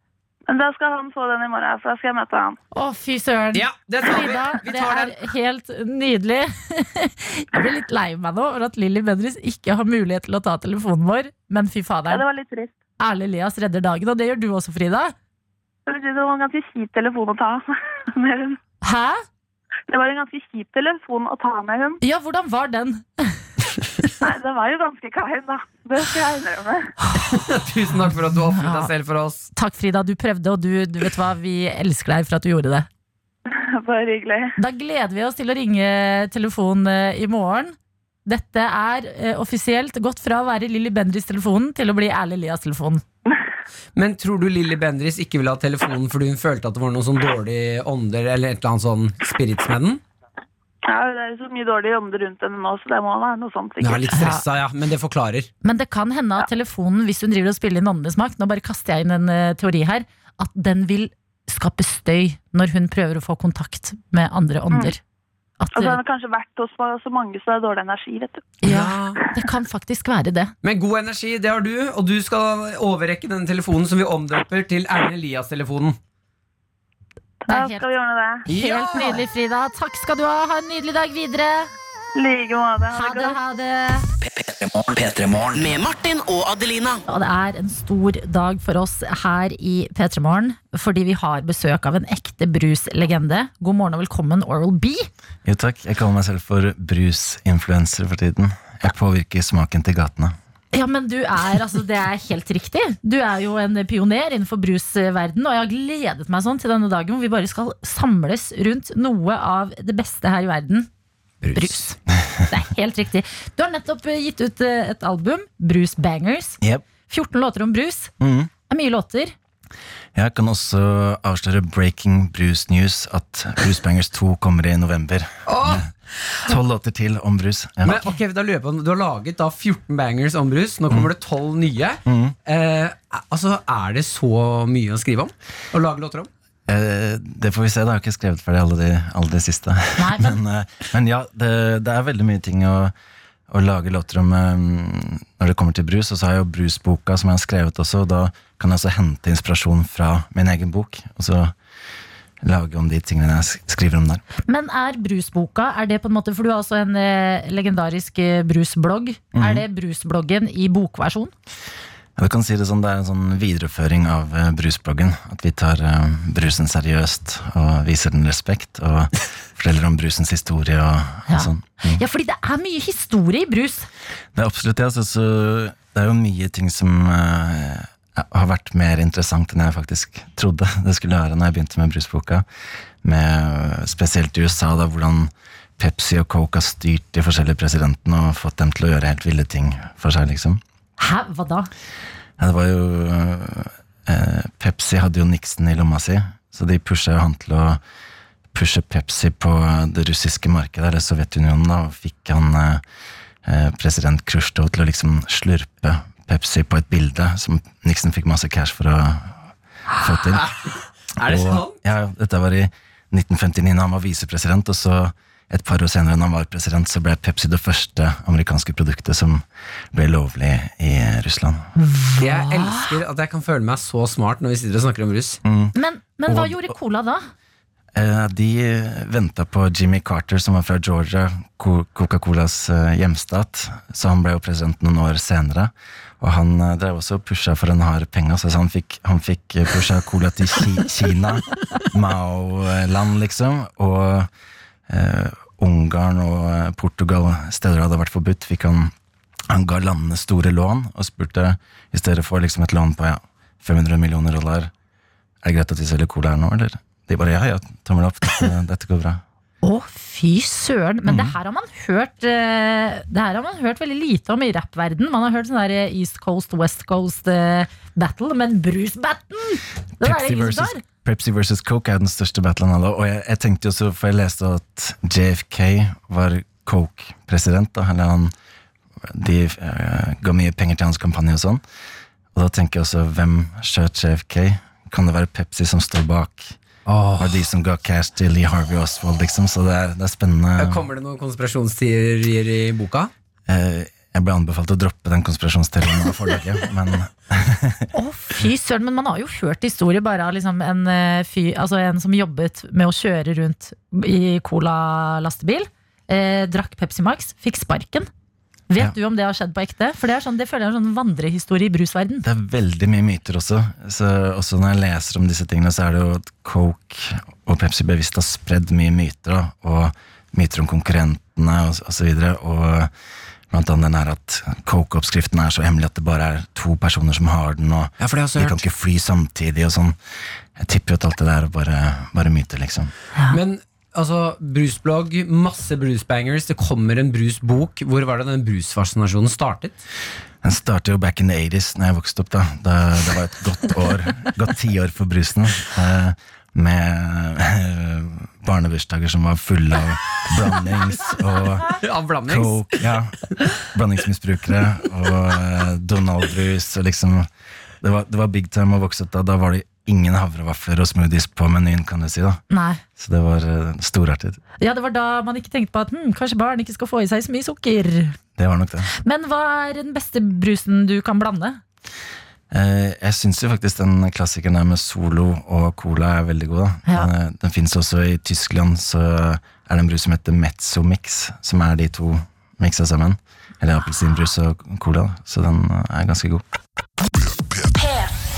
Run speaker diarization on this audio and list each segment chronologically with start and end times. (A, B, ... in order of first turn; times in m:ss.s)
0:00.5-0:02.6 A
0:02.7-0:12.2 B
0:03.5-0:05.3 C
0:12.1-0:12.7 A
0:13.0-0:15.1 B
0:15.9-0:18.6 A
0:18.8-0:19.2 B
0:19.9-0:22.0 A
0:22.0-0:23.4 B
0:24.2-0:26.9 A
0:27.0-0:27.4 B
0:27.2-0:29.5 C
0:28.5-0:28.9 B
0:29.5-0:32.9 B
0:33.5-0:34.5 A
0:34.6-0:37.7 B
0:38.2-0:43.0 B
0:43.9-0:50.0 C
0:50.9-0:54.2 A
0:53.8-0:55.5 C
0:54.1-0:54.4 B
0:55.6-1:05.0 B
1:05.6-1:06.0 B
1:05.7-1:08.6 A
1:08.6-1:10.5 B
1:08.6-1:09.2 C
1:10.6-1:16.0 C
1:17.5-1:18.5 A
1:17.5-1:17.8 B
1:18.4-1:21.7 B
1:18.5-1:19.2 C
1:22.2-1:23.4 A
1:22.9-1:24.1 B
1:24.2-1:27.0 D
1:27.1-1:35.1 B
1:35.4-1:40.3 E
1:40.7-1:50.9 B
1:51.4-1:51.9 C
1:51.5-1:58.1 B
1:58.2-1:58.5 E
1:58.7-1:59.3 B
2:00.1-2:05.9 E
2:05.5-2:05.9 C
2:06.4-2:08.0 E
2:07.8-2:16.3 C
2:12.0-2:12.4 E
2:16.7-2:22.9 E
2:20.0-2:20.4 B
2:23.5-2:31.5 E
2:32.4-2:34.2 E
2:34.4-2:41.3 B
2:39.3-2:39.6 E
2:42.2-2:52.0 E
2:51.3-2:53.9 B
2:54.3-3:02.4 E
3:03.0-3:10.6 E
3:11.0-3:11.7 B
3:12.4-3:17.8 E
3:18.5-3:22.8 E
3:23.4-3:29.4 E
3:30.0-3:30.5 E
3:30.3-3:31.8 C
3:31.2-3:41.7 E
3:41.8-3:43.0 B
3:42.2-3:45.4 C
3:45.4-3:45.7 E
3:45.7-3:47.3 B
3:46.3-3:46.7 E
3:47.9-4:04.3 E
4:04.9-4:08.9 E
4:09.5-4:14.7 E
4:15.4-4:19.2 E
4:19.6-4:30.8 B
4:21.0-4:21.3 E
4:30.0-4:38.3 E
4:39.1-4:41.6 E
4:42.3-4:46.6 E
4:46.8-4:47.5 C
4:47.2-4:50.8 E
4:50.6-4:53.1 C
4:53.5-4:57.9 E
4:57.9-5:08.1 B
5:08.7-5:12.2 B
5:12.2-5:22.9 E
5:23.5-5:30.0 E
5:28.0-5:28.6 C
5:30.6-5:32.9 E
5:33.3-5:39.8 C
5:40.4-5:57.3 E
5:51.8-5:52.7 C
5:57.8-6:02.4 E
6:02.5-6:02.8 B
6:02.9-6:04.4 E
6:04.6-6:08.2 B
6:08.4-6:08.9 E
6:08.9-6:11.6 B
6:12.5-6:26.4 E